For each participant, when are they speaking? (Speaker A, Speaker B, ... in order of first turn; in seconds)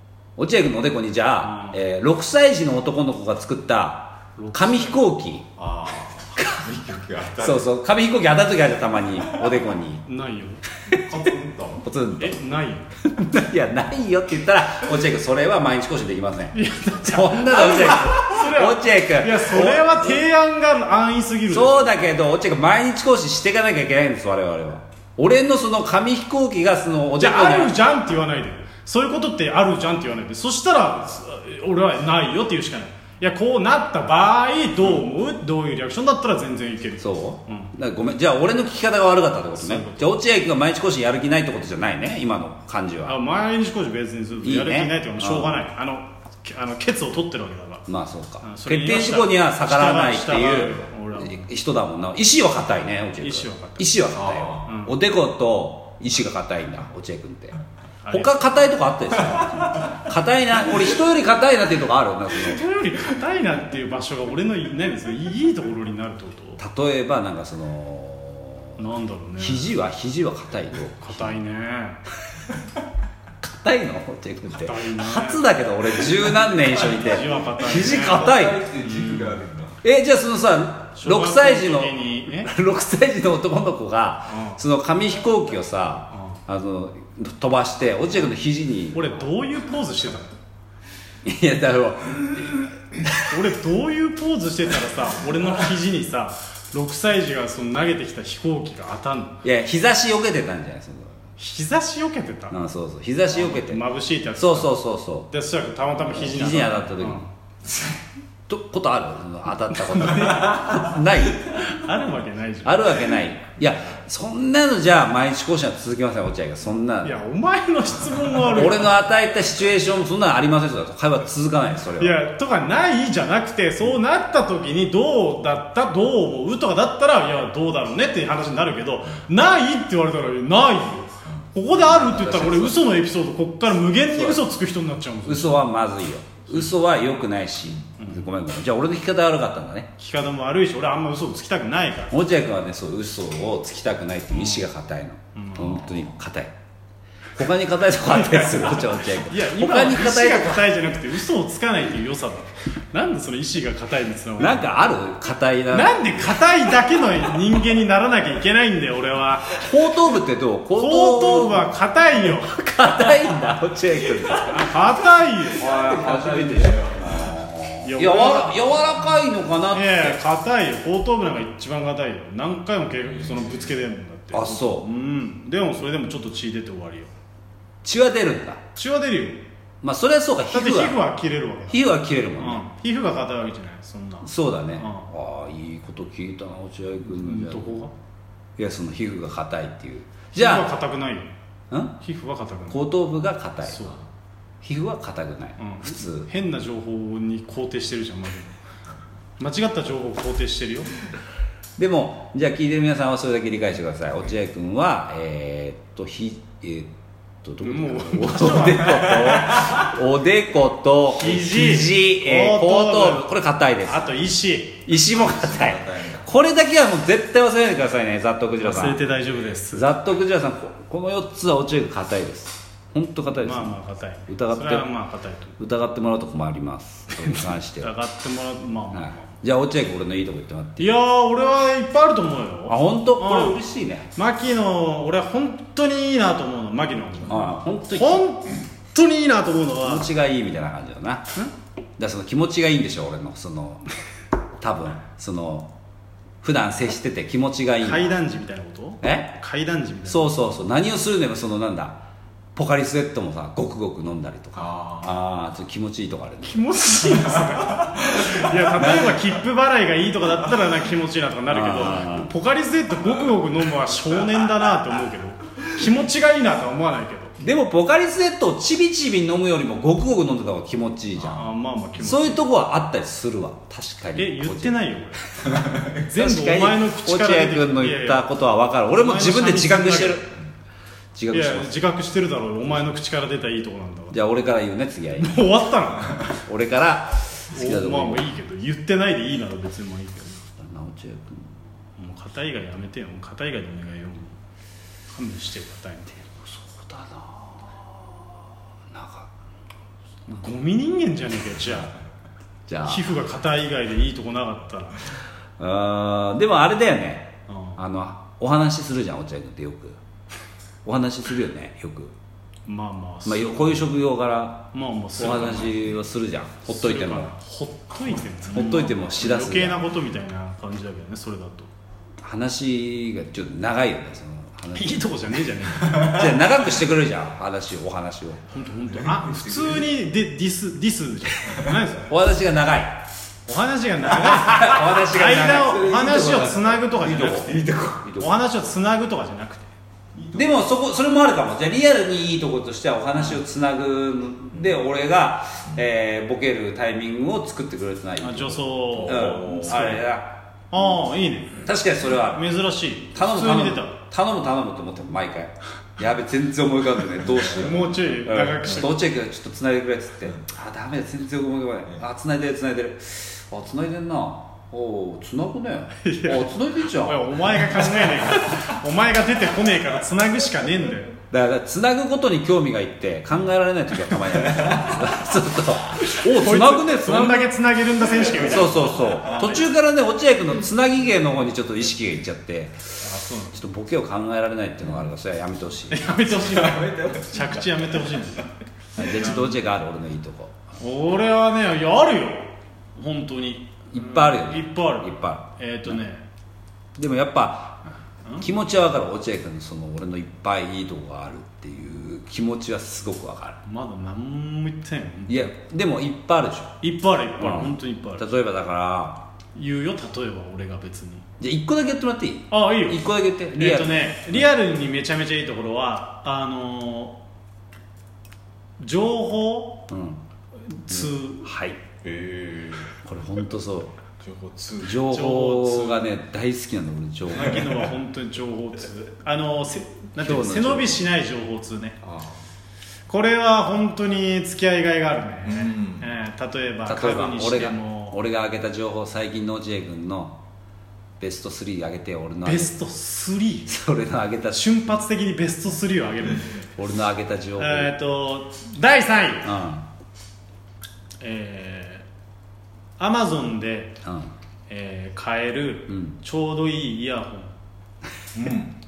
Speaker A: 0.4-5.5, 6.4-6.7, 7.4-10.0, 10.9-11.2, 11.8-12.4, 13.0-20.2, 21.5-27.8, 37.0-43.2, 44.4-45.6, 47.9-57.6, 58.1-62.6, 66.6-68.8, 69.4-71.4, 73.4-78.7, 79.8-89.2, 91.2-93.1, 99.4-101.2, 102.5-103.8, 104.4-105.3, 106.1-107.2, 108.5-111.5, 112.7-117.2, 118.5-122.2, 131.7-132.8, 134.1-134.4, 135.3-139.9, 142.1-146.5, 147.4-150.7, 154.4-156.2, 159.6-164.8, 165.6-170.2, 174.3-174.9, 177.8-178.6, 179.8-181.0, 181.7-182.6, 184.2-187.8, 188.6-190.7, 191.7-192.0, 192.7-193.9, 194.6-196.3, 201.8-206.9, 207.4-214.0, 214.9-219.0, 219.7-223.7, 224.3-224.9, 225.6-227.9, 228.9-230.9, 232.7-234.1, 237.3-238.2, 239.8-241.3, 242.0-243.8, 244.6-245.7, 246.4-248.1, 249.0-249.3, 250.1-252.0, 252.6-256.6, 258.8-259.2, 261.5-262.3, 267.4-274.8, 276.1-280.3, 281.1-281.7, 284.1-285.4, 286.3-288.3, 290.6-291.6, 296.4-299.3, 302.7-303.1, 305.6-310.0, 310.9-312.1, 313.2-317.3, 318.4-319.8, 322.2-325.0, 325.9-328.4, 332.1-333.0, 334.3-338.4, 340.3-350.4, 351.6-352.4, 353.1-367.4, 371.3-377.5, 378.4-382.8, 383.5-386.2, 389.0-390.8, 393.9-396.0, 397.0-397.8, 398.4-403.6, 405.3-406.8, 407.4-409.3, 411.4-414.4, 419.9-420.2, 420.9-421.8, 423.0-424.0, 424.8-427.8, 430.2-431.1, 436.9-440.4, 441.2-442.7, 443.7-444.8, 446.8-447.9, 449.4-449.9, 454.0-454.3, 455.9-456.1
Speaker B: 1.4-1.8, 4.4-5.0, 10.1-10.6, 12.2-12.9, 16.5-21.9, 27.2-37.7, 39.6-40.1, 43.0-47.9, 48.4-51.5, 53.2-53.9, 54.6-54.9, 58.0-58.4, 62.4-66.6, 68.8-69.7, 71.0-72.0, 74.5-75.4, 76.8-78.3, 78.8-79.4, 81.0-82.5, 84.3-84.6, 86.1-86.4, 88.9-90.3, 93.3-99.4, 101.4-102.6, 103.3-104.8, 105.3-107.3, 111.5-113.1, 117.0-119.0, 122.0-135.6, 138.0-138.3, 140.0-142.2, 144.3-144.7, 145.3-145.9, 148.1-154.8, 155.7-159.6, 160.8-162.6, 164.4-165.7, 167.8-168.9, 169.7-177.1, 178.8-179.4, 180.5-185.1, 187.0-187.9, 190.3-191.3, 192.0-192.8, 193.7-194.0, 195.6-198.6, 199.4-200.9, 207.6-209.4, 211.2-213.3, 213.9-214.9, 218.6-219.9, 223.4-225.6, 227.1-229.3, 230.8-233.6, 234.1-240.1, 247.8-250.3, 256.4-267.4, 271.2-272.4, 274.2-278.3, 278.9-280.2, 281.3-284.2, 285.1-286.3, 287.5-290.4, 292.0-294.4, 295.1-296.2, 300.3-302.0, 302.8-305.1, 307.5-307.8, 312.7-313.9, 314.7-315.8, 316.7-321.7, 324.7-326.2, 328.5-332.1, 333.5-337.6, 338.2-339.7, 348.2-350.1, 350.7-351.7, 352.3-353.9, 357.5-359.0, 366.0-371.2, 376.1-379.6, 383.0-383.6, 385.9-388.5, 390.8-396.3, 403.6-405.5, 406.8-408.3, 409.6-411.2, 412.5-417.2, 418.8-419.9, 420.7-421.5, 425.0-426.1, 427.3-432.0, 433.1-438.2, 442.4-443.7, 444.5-446.6, 447.6-449.5, 451.2-452.1, 453.0-454.0, 454.7-457.5
Speaker C: 5.6-7.6, 11.1-11.8, 54.2-54.6, 78.0-79.8, 215.3-216.2, 254.6-255.1, 275.5-275.9, 329.1-329.8, 349.2-349.6, 386.6-387.4, 422.0-422.9, 424.2-425.0, 435.6-436.0, 458.4-458.7